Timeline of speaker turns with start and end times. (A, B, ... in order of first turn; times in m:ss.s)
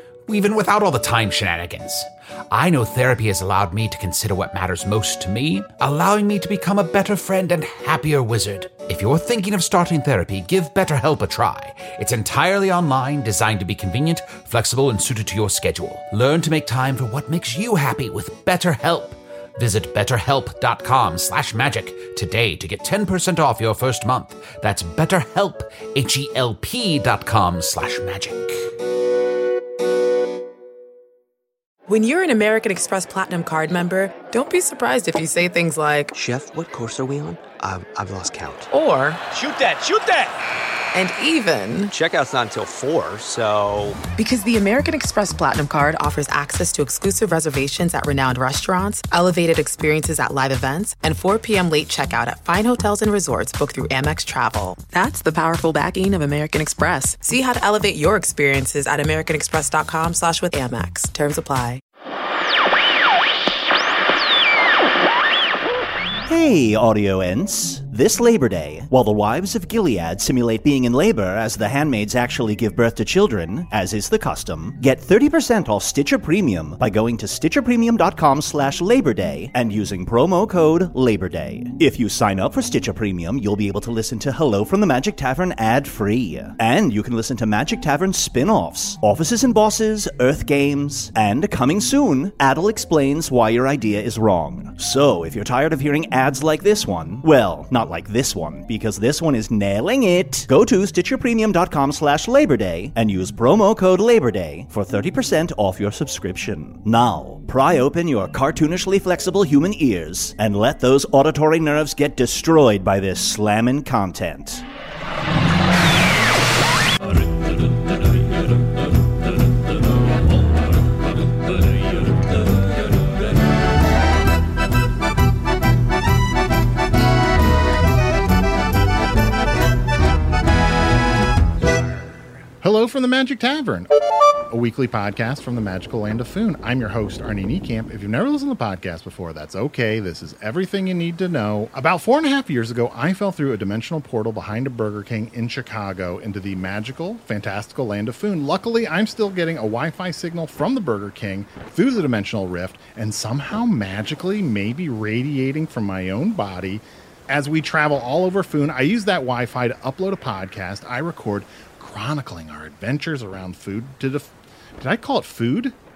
0:00.3-0:28.7 A
0:31.9-0:36.1 B
0:36.1-0:38.7 C
0:38.7-0:39.2 B
0:39.3-0:40.3 C
0:40.9-0:41.9 B
0:41.9-0:44.0 C
0:44.2-1:01.8 B
1:06.2-1:54.6 D
2:12.6-2:13.9 E
2:14.5-2:45.7 E